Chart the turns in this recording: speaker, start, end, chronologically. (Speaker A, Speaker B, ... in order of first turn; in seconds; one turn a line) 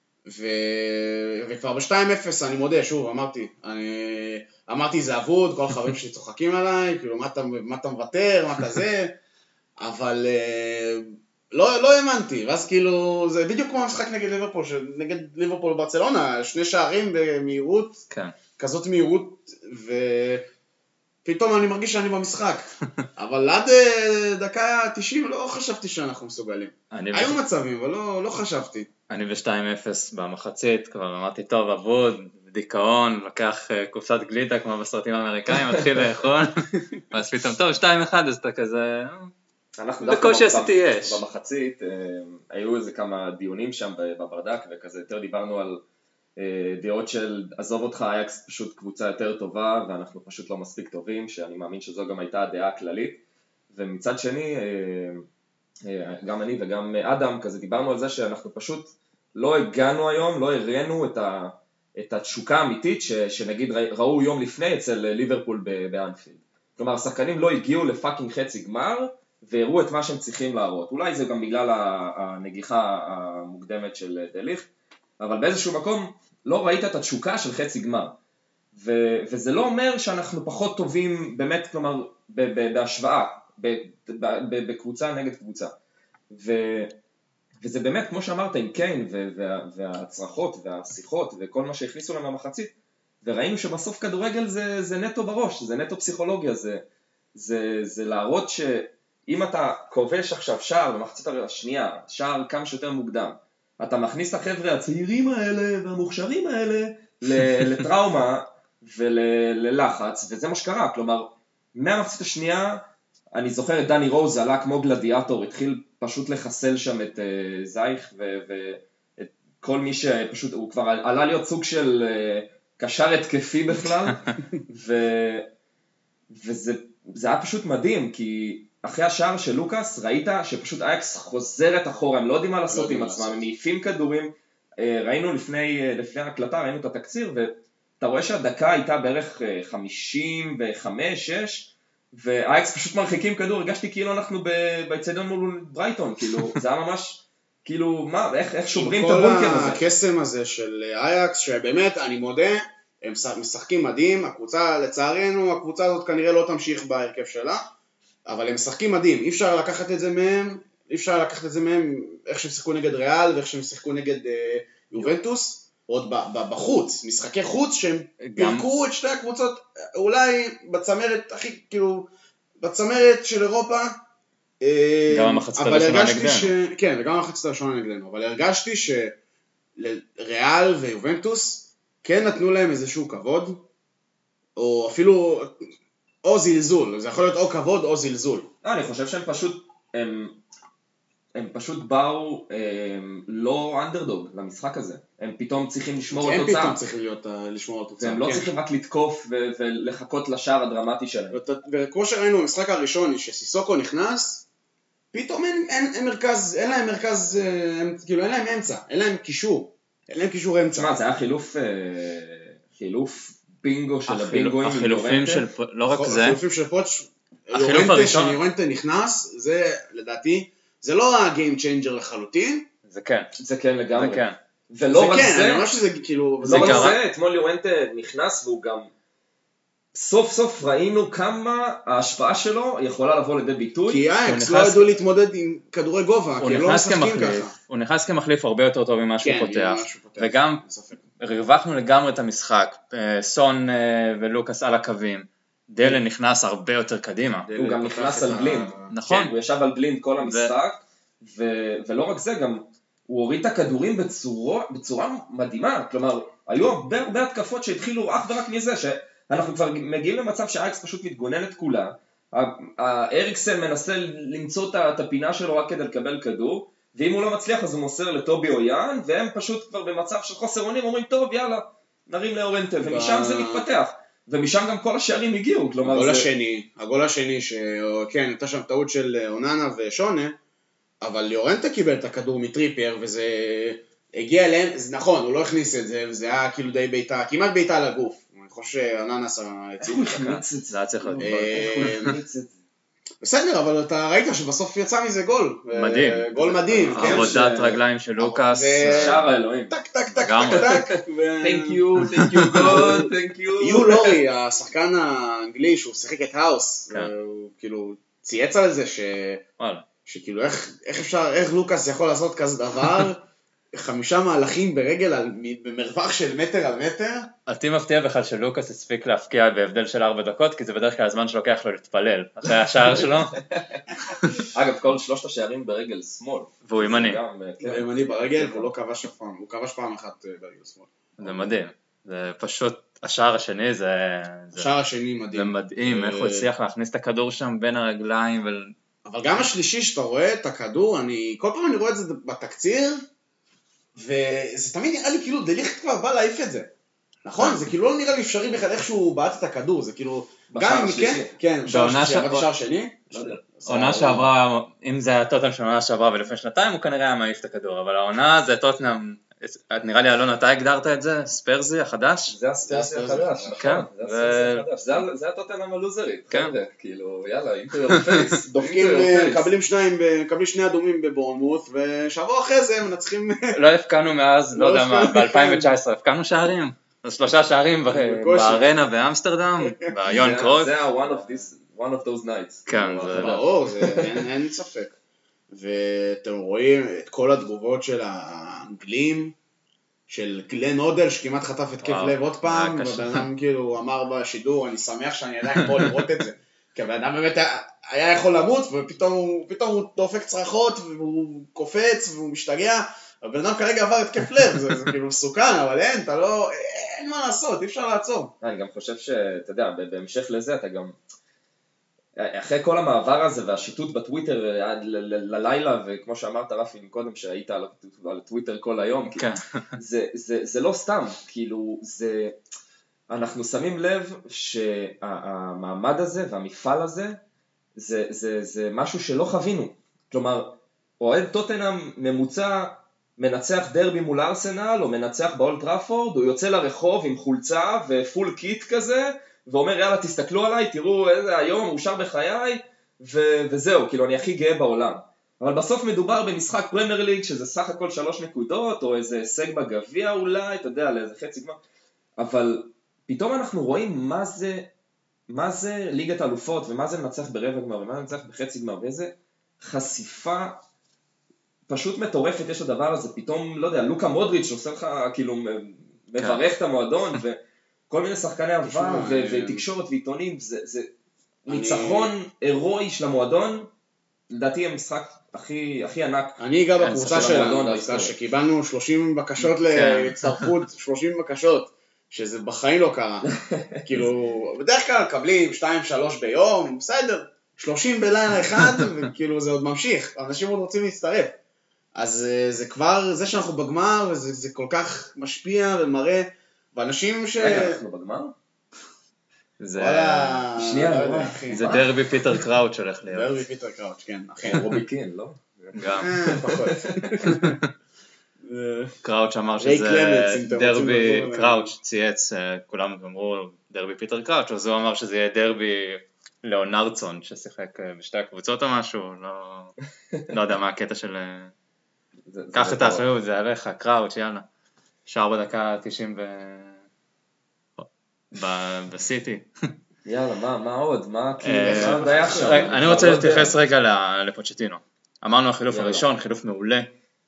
Speaker A: 0.2-9.2
Speaker A: 9.8-18.0
Speaker B: 18.1-18.3
Speaker A: 18.6-20.4
Speaker A: 21.2-28.9
Speaker B: 26.9-27.4
Speaker B: 29.1-36.5
Speaker B: 37.1-39.3
Speaker C: 39.8-45.8
Speaker B: 40.0-41.2
Speaker C: 46.4-55.2
Speaker C: 55.8-74.7
Speaker C: 75.2-78.2
Speaker C: 78.7-85.7
Speaker C: 86.3-87.0
Speaker C: 87.6-96.8
Speaker C: 97.3-125.5
Speaker C: 126.3-149.9
Speaker A: 132.7-133.4
Speaker A: 148.7-157.6
Speaker A: 158.3-174.0
Speaker B: 168.2-168.7
Speaker A: 174.6-179.2
Speaker B: 175.1-176.5
Speaker A: 179.8-183.6
Speaker A: 184.6-185.7
Speaker A: 186.2-188.5
Speaker C: 188.6-190.4
Speaker C: 191.3-196.8
Speaker A: 196.1-198.5
Speaker C: 198.0-201.4
Speaker A: 201.3-204.4
Speaker A: 205.1-211.0
Speaker C: 210.7-215.5
Speaker B: 214.1-216.4
Speaker A: 215.9-222.7
Speaker B: 217.5-218.4
Speaker B: 222.9-223.3
Speaker C: 223.4-225.7
Speaker B: 223.9-224.4
Speaker A: 224.9-226.9
Speaker C: 226.4-228.9
Speaker B: 226.5-227.0
Speaker C: 229.9-234.0
Speaker A: 233.9-237.5
Speaker B: 234.2-234.9
Speaker B: 236.4-240.6
Speaker A: 239.2-241.0
Speaker B: 241.2-247.5
Speaker A: 247.5-248.9
Speaker C: 247.5-276.3
Speaker B: 248.9-249.3
Speaker B: 250.2-250.5
Speaker A: 272.8-273.6
Speaker A: 275.8-280.4
Speaker A: 281.0-290.4
Speaker C: 289.8-292.5
Speaker B: 290.2-291.4
Speaker A: 291.2-292.1
Speaker A: 293.2-303.1
Speaker B: 295.7-299.2
Speaker C: 296.6-297.4
Speaker C: 298.8-299.8
Speaker B: 300.1-300.7
Speaker C: 300.5-304.2
Speaker B: 302.0-302.7
Speaker A: 303.6-309.4
Speaker B: 309.6-309.8
Speaker A: 310.1-317.3
Speaker B: 317.5-323.4
Speaker C: 323.0-323.8
Speaker C: 324.3-328.7
Speaker B: 326.6-327.2
Speaker A: 327.6-331.5
Speaker B: 331.2-334.7
Speaker A: 334.5-336.5
Speaker B: 335.3-338.7
Speaker A: 339.0-343.0
Speaker A: 343.9-346.7
Speaker A: 347.2-354.3
Speaker C: 350.5-351.3
Speaker B: 351.7-352.5
Speaker B: 353.6-362.3
Speaker C: 362.3-369.5
Speaker A: 362.7-363.6
Speaker B: 363.6-364.6
Speaker B: 367.9-368.2
Speaker A: 368.4-373.6
Speaker B: 373.5-380.8
Speaker A: 374.5-375.7
Speaker A: 377.9-378.7
Speaker A: 379.6-379.9
Speaker C: 380.1-384.3
Speaker B: 382.7-383.4
Speaker A: 383.1-384.9
Speaker A: 385.5-389.3
Speaker A: 390.1-408.3
Speaker B: 391.8-393.3
Speaker C: 408.4-410.9
Speaker C: 412.1-422.4
Speaker B: 419.1-419.7
Speaker C: 423.1-427.2
Speaker C: 427.8-451.6
Speaker C: 452.2-454.7
Speaker C: 455.3-460.6
Speaker C: 461.7-470.9
Speaker B: 466.2-466.4
Speaker A: 468.6-469.6
Speaker A: 471.5-472.1
Speaker C: 471.5-473.7
Speaker C: 474.3-476.4
Speaker A: 476.4-491.4
Speaker B: 476.8-477.5
Speaker C: 477.0-478.1
Speaker B: 479.6-480.5
Speaker C: 483.3-483.8
Speaker A: 491.9-497.8
Speaker C: 497.4-498.3
Speaker B: 499.6-500.4
Speaker A: 499.8-501.7
Speaker C: 500.6-502.4
Speaker B: 501.5-503.4
Speaker A: 503.1-504.9
Speaker C: 504.4-507.1
Speaker B: 505.7-506.3
Speaker A: 506.0-507.6
Speaker B: 507.2-507.7
Speaker A: 508.4-509.0
Speaker B: 509.0-519.7
Speaker A: 509.6-511.7
Speaker B: 520.3-521.5
Speaker C: 522.3-523.0
Speaker B: 522.5-524.5
Speaker B: 525.0-526.8
Speaker B: 527.8-529.5
Speaker C: 530.0-533.5
Speaker B: 531.4-536.9
Speaker A: 531.6-533.5
Speaker C: 535.7-536.1